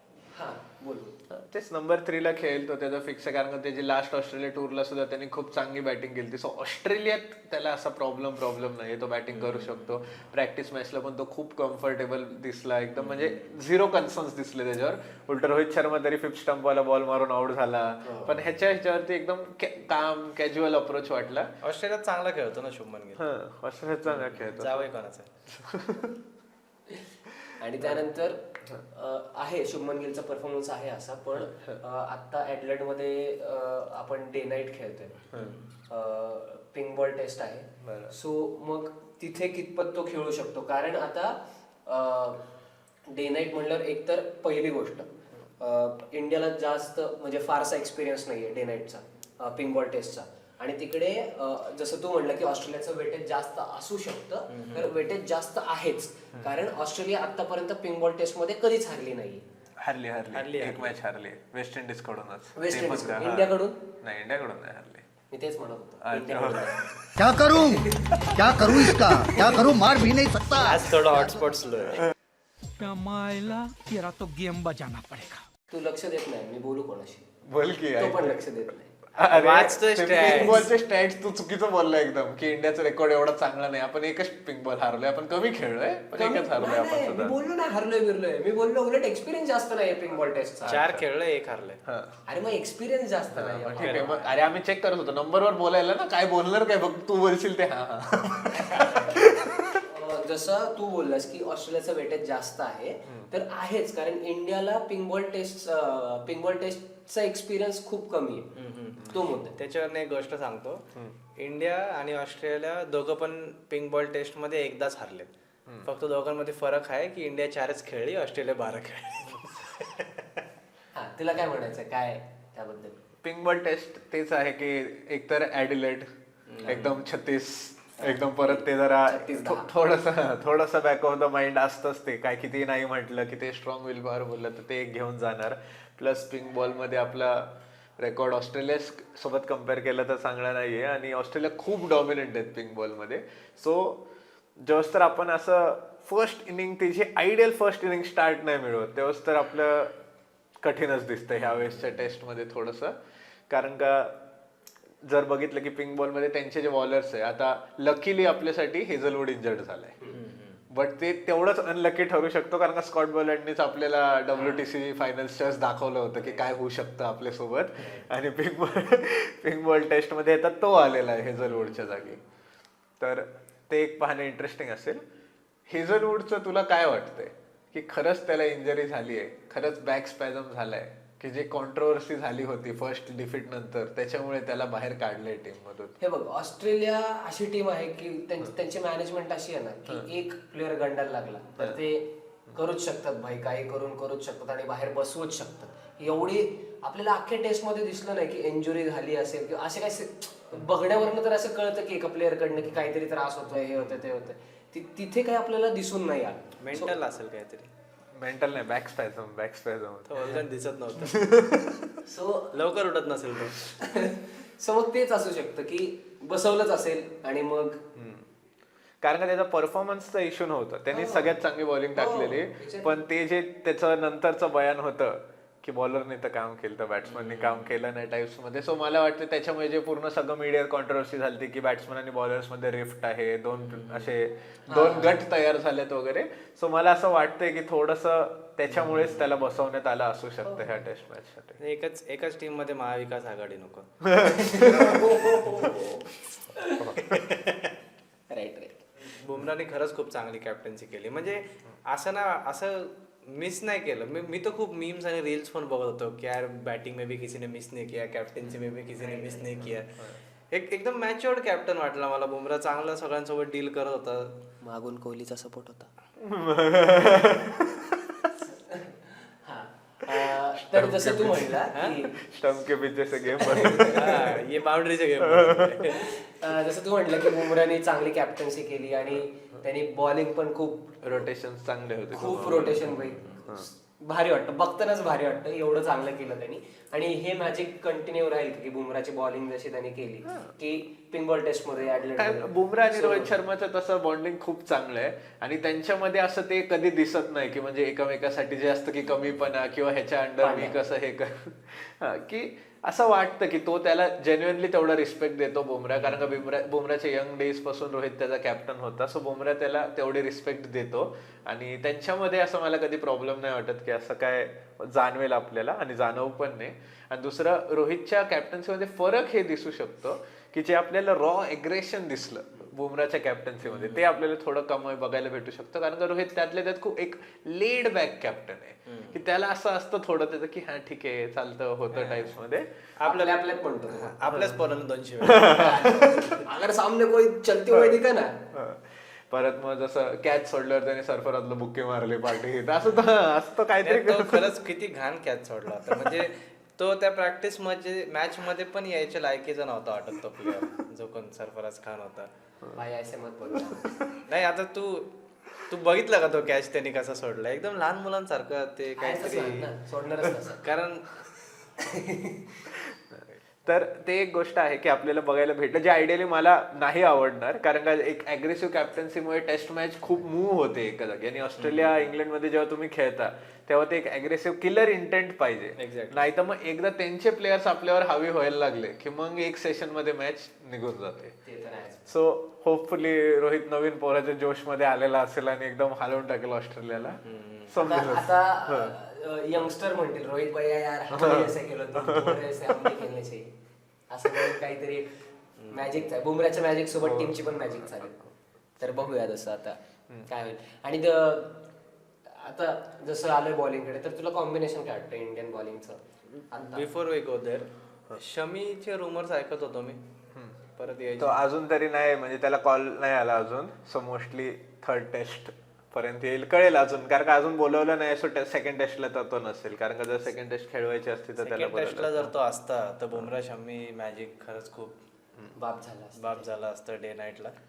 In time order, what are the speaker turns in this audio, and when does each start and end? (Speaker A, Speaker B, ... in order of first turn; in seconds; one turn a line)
Speaker A: 0.3-1.2
Speaker B: 1.3-21.5
Speaker C: 9.3-9.9
Speaker C: 13.0-13.5
Speaker A: 18.1-18.3
Speaker C: 21.6-23.3
Speaker B: 23.2-24.8
Speaker C: 24.1-25.3
Speaker B: 25.5-26.2
Speaker A: 27.6-35.3
Speaker B: 31.4-31.8
Speaker C: 35.3-35.7
Speaker A: 35.9-42.4
Speaker B: 37.8-38.1
Speaker A: 43.1-59.4
Speaker C: 54.5-54.9
Speaker B: 59.8-65.0
Speaker C: 60.3-61.0
Speaker A: 62.5-63.8
Speaker A: 65.3-66.9
Speaker B: 66.0-67.0
Speaker D: 67.2-70.9
Speaker A: 67.6-68.3
Speaker C: 70.5-72.1
Speaker E: 72.8-75.5
Speaker A: 75.7-77.3
Speaker B: 77.4-78.4
Speaker A: 77.9-78.9
Speaker B: 79.1-87.3
Speaker C: 79.2-80.7
Speaker A: 80.2-80.7
Speaker A: 86.1-90.8
Speaker B: 90.6-91.0
Speaker C: 90.7-91.8
Speaker B: 91.8-92.2
Speaker A: 92.2-94.4
Speaker B: 93.3-99.8
Speaker C: 93.8-94.1
Speaker A: 98.5-99.2
Speaker A: 99.8-108.5
Speaker C: 108.5-115.3
Speaker A: 109.0-109.5
Speaker C: 115.8-120.4
Speaker A: 120.9-123.0
Speaker B: 123.2-126.1
Speaker C: 126.5-127.0
Speaker B: 126.6-144.0
Speaker A: 128.0-129.7
Speaker B: 144.6-149.9
Speaker B: 150.6-152.9
Speaker C: 151.3-152.0
Speaker B: 153.5-154.2
Speaker B: 155.0-159.9
Speaker C: 160.1-160.6
Speaker B: 160.7-172.2
Speaker C: 171.5-172.1
Speaker B: 173.0-175.0
Speaker B: 175.7-185.9
Speaker A: 186.0-206.9
Speaker C: 206.6-207.7
Speaker B: 208.1-210.4
Speaker C: 210.1-211.2
Speaker B: 211.0-212.0
Speaker A: 212.0-212.5
Speaker C: 212.5-213.6
Speaker A: 213.8-217.8
Speaker B: 217.9-218.2
Speaker B: 219.0-241.6
Speaker A: 220.9-221.3
Speaker A: 221.9-223.0
Speaker C: 227.0-227.8
Speaker C: 233.6-234.1
Speaker A: 234.7-235.2
Speaker C: 238.7-239.3
Speaker C: 241.6-243.9
Speaker B: 244.0-245.1
Speaker A: 244.4-247.0
Speaker C: 244.5-245.3
Speaker B: 246.8-247.1
Speaker C: 247.0-247.7
Speaker A: 248.3-248.8
Speaker C: 249.0-264.4
Speaker A: 259.0-259.6
Speaker A: 264.6-265.9
Speaker B: 266.2-268.3
Speaker A: 268.4-272.2
Speaker B: 270.1-274.4
Speaker C: 271.7-272.0
Speaker A: 273.4-274.2
Speaker C: 273.6-276.1
Speaker B: 275.2-275.8
Speaker A: 275.9-281.2
Speaker B: 281.0-283.7
Speaker A: 282.1-293.3
Speaker C: 282.5-283.4
Speaker B: 292.1-332.7
Speaker A: 300.4-300.8
Speaker C: 305.9-306.4
Speaker C: 323.6-324.0
Speaker C: 328.9-329.2
Speaker C: 333.0-336.0
Speaker A: 333.0-334.4
Speaker B: 335.2-336.4
Speaker A: 335.5-338.4
Speaker B: 337.7-338.0
Speaker B: 338.5-344.5
Speaker C: 343.8-352.3
Speaker B: 345.9-346.1
Speaker A: 352.7-354.0
Speaker C: 354.2-359.7
Speaker A: 359.0-360.6
Speaker C: 360.6-361.2
Speaker A: 361.8-362.7
Speaker B: 362.7-381.3
Speaker C: 371.6-372.1
Speaker C: 375.8-376.2
Speaker A: 381.4-382.1
Speaker B: 382.1-388.9
Speaker C: 387.2-387.8
Speaker A: 387.8-393.5
Speaker B: 391.1-392.9
Speaker A: 394.1-395.2
Speaker B: 394.3-394.6
Speaker C: 395.6-395.9
Speaker A: 395.7-398.2
Speaker B: 397.0-398.3
Speaker A: 398.8-401.6
Speaker A: 402.3-406.9
Speaker C: 406.6-410.0
Speaker C: 410.7-411.4
Speaker B: 411.2-422.3
Speaker C: 421.4-425.0
Speaker A: 425.5-426.5
Speaker C: 426.1-427.5